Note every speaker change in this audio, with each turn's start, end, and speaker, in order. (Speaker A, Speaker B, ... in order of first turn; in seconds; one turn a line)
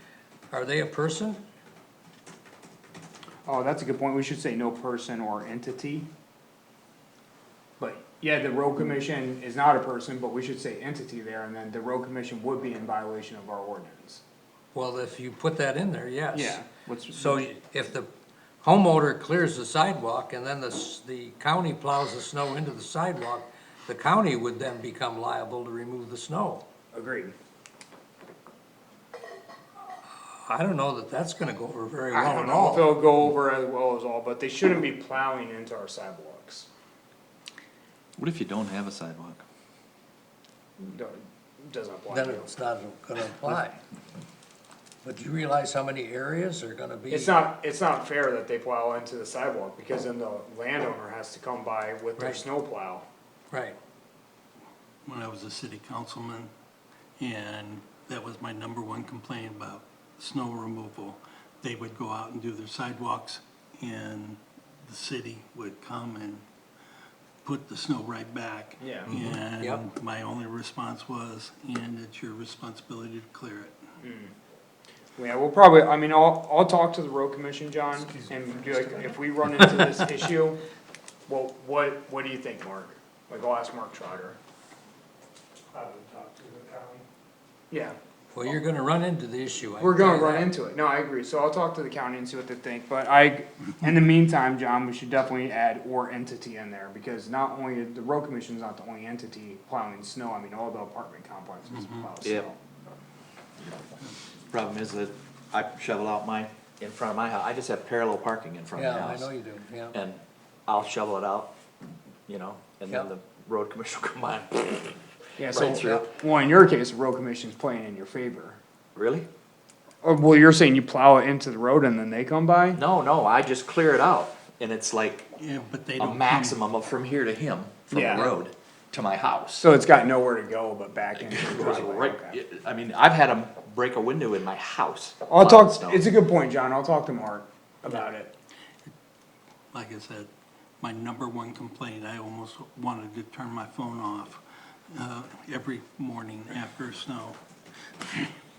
Speaker A: 0.5-1.4
Speaker B: 3.5-6.1
Speaker B: 7.8-14.2
Speaker A: 14.7-18.1
Speaker B: 16.3-17.4
Speaker A: 18.6-26.6
Speaker B: 26.9-27.3
Speaker A: 30.4-33.0
Speaker B: 32.1-36.7
Speaker C: 38.2-39.4
Speaker B: 40.8-42.5
Speaker A: 42.1-43.8
Speaker A: 45.0-47.4
Speaker B: 47.1-53.0
Speaker A: 53.5-53.8
Speaker D: 55.0-56.5
Speaker D: 57.2-66.4
Speaker D: 67.4-73.8
Speaker B: 68.8-69.1
Speaker B: 74.0-74.3
Speaker B: 75.2-80.6
Speaker E: 78.1-79.1
Speaker B: 81.3-84.4
Speaker E: 85.7-87.0
Speaker B: 87.7-88.0
Speaker A: 88.3-90.5
Speaker B: 89.8-102.6
Speaker C: 104.5-109.3
Speaker A: 108.8-109.9
Speaker C: 109.9-111.5
Speaker C: 112.3-116.0
Speaker B: 115.4-118.6
Speaker C: 119.0-119.3
Speaker B: 120.0-122.8
Speaker C: 122.7-125.3
Speaker D: 125.4-126.5
Speaker C: 126.0-129.6
Speaker B: 127.9-128.3
Speaker B: 129.6-132.4
Speaker C: 131.2-136.1
Speaker B: 135.3-138.3
Speaker D: 139.7-140.3
Speaker D: 140.8-147.4